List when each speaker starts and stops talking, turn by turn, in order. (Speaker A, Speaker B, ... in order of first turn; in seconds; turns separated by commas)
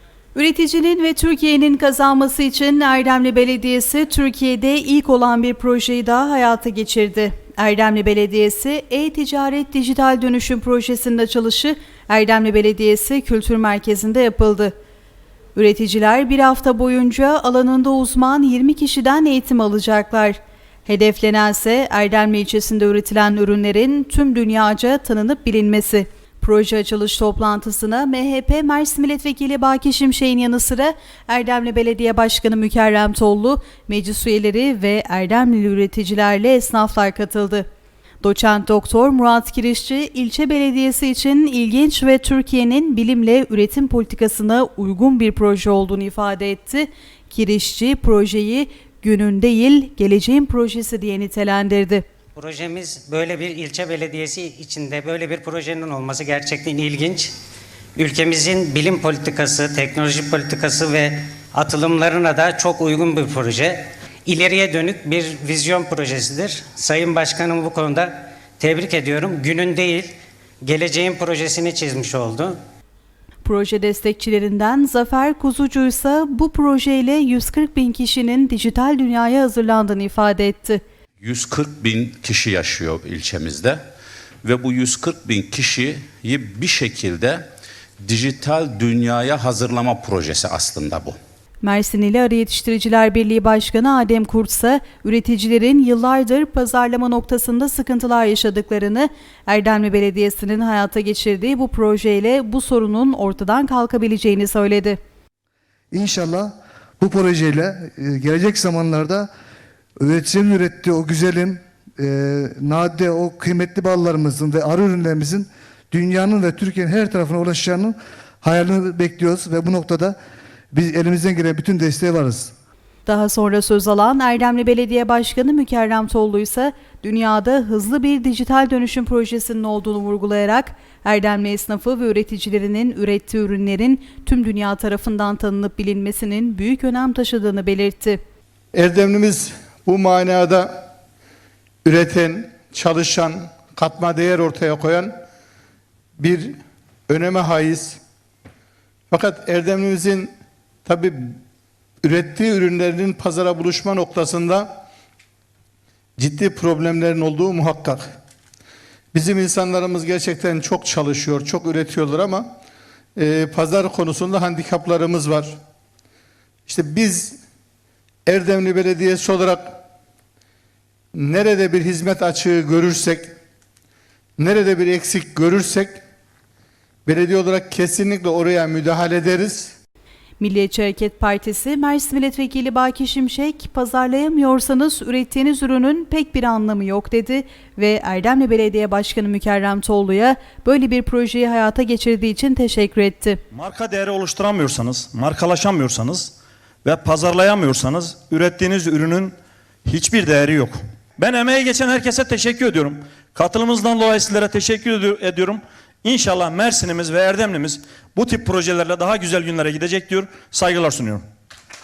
Speaker A: 0.3-14.7, Speaker A: 15.5-37.6, Speaker A: 38.2-52.0, Speaker B: 52.4-57.3, Speaker B: 58.0-72.6, Speaker A: 73.4-80.8, Speaker C: 81.2-83.8, Speaker C: 84.4-87.5, Speaker C: 88.0-91.2, Speaker A: 91.6-105.0, Speaker D: 105.9-109.3, Speaker D: 110.0-120.2, Speaker D: 120.7-122.5, Speaker A: 123.0-138.2, Speaker E: 138.7-140.9, Speaker E: 141.8-145.1, Speaker E: 146.2-146.5, Speaker E: 147.1-148.0, Speaker E: 149.1-150.3, Speaker E: 150.8-151.3, Speaker E: 152.0-154.8, Speaker E: 156.2-158.1, Speaker E: 159.1-162.5, Speaker E: 163.2-165.6, Speaker E: 166.7-167.4, Speaker E: 168.2-169.7, Speaker E: 171.1-173.3, Speaker E: 174.4-175.9, Speaker E: 177.1-179.8, Speaker A: 180.4-193.4, Speaker F: 193.5-199.3, Speaker F: 199.8-211.2